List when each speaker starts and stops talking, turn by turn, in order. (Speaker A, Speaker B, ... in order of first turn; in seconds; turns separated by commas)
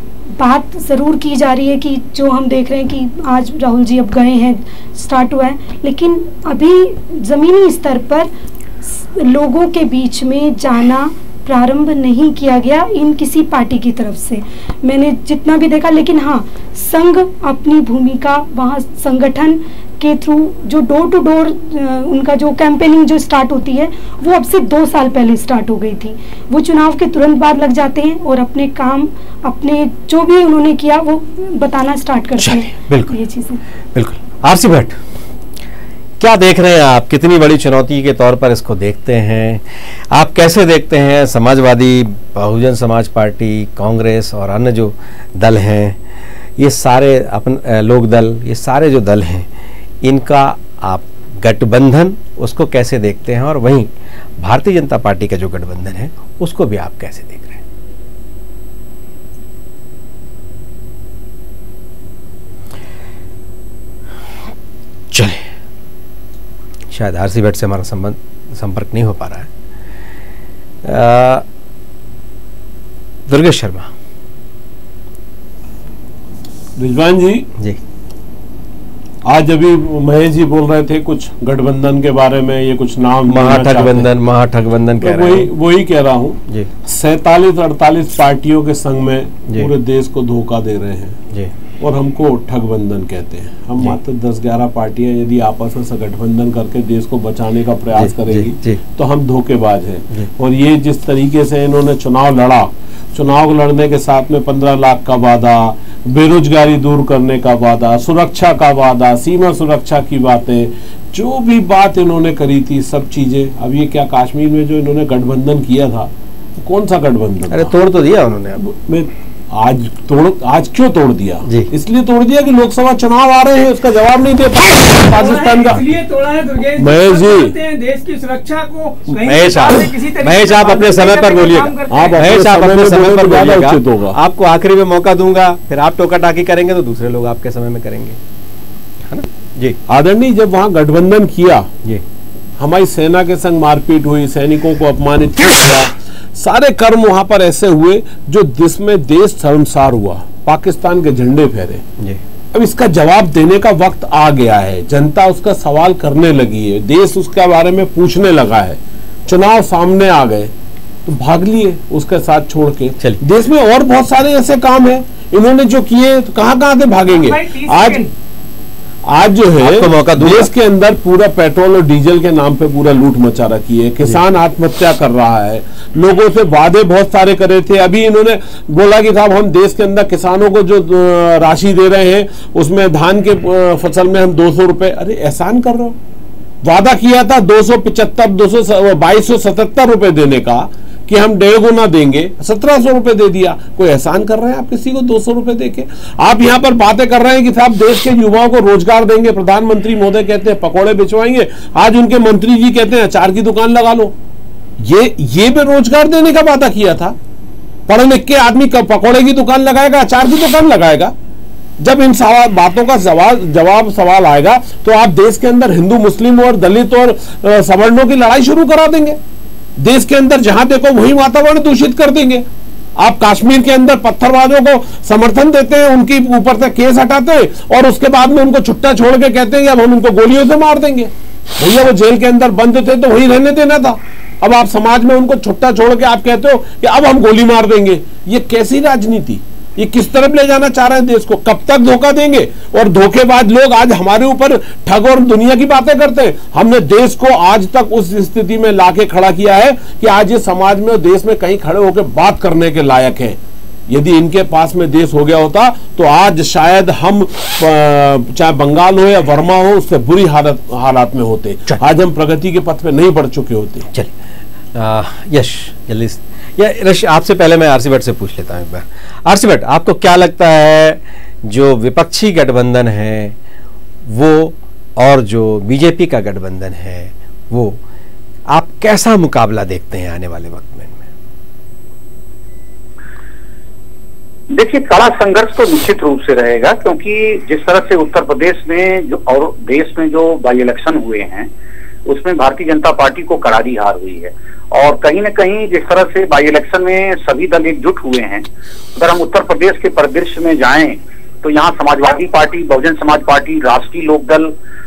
Speaker A: 0.3-8.3, Speaker A: 8.8-33.6, Speaker B: 32.4-33.1, Speaker B: 33.9-35.0, Speaker B: 36.2-46.0, Speaker B: 46.6-49.5, Speaker B: 50.0-57.6, Speaker B: 65.1-65.5, Speaker B: 66.9-69.5, Speaker B: 70.8-71.5, Speaker B: 73.3-73.9, Speaker C: 76.8-77.5, Speaker C: 79.2-84.1, Speaker B: 83.3-85.5, Speaker C: 85.0-91.2, Speaker C: 91.8-117.7, Speaker B: 98.0-98.8, Speaker B: 117.5-118.6, Speaker C: 118.6-125.8, Speaker D: 124.6-132.4, Speaker C: 126.8-127.5, Speaker B: 129.1-138.2, Speaker C: 131.9-134.2, Speaker B: 139.1-139.8, Speaker C: 139.9-141.7, Speaker C: 142.6-151.8, Speaker C: 152.5-160.5, Speaker C: 161.1-168.0, Speaker D: 167.1-168.1, Speaker C: 169.1-186.0, Speaker B: 169.6-170.5, Speaker C: 186.6-204.1, Speaker C: 204.8-207.2, Speaker C: 207.9-211.1, Speaker C: 211.8-219.2, Speaker C: 219.8-222.4, Speaker C: 223.0-263.9, Speaker B: 264.7-273.4, Speaker B: 274.1-277.8, Speaker B: 278.5-281.1, Speaker E: 284.5-291.5, Speaker E: 292.1-298.4, Speaker E: 299.0-304.5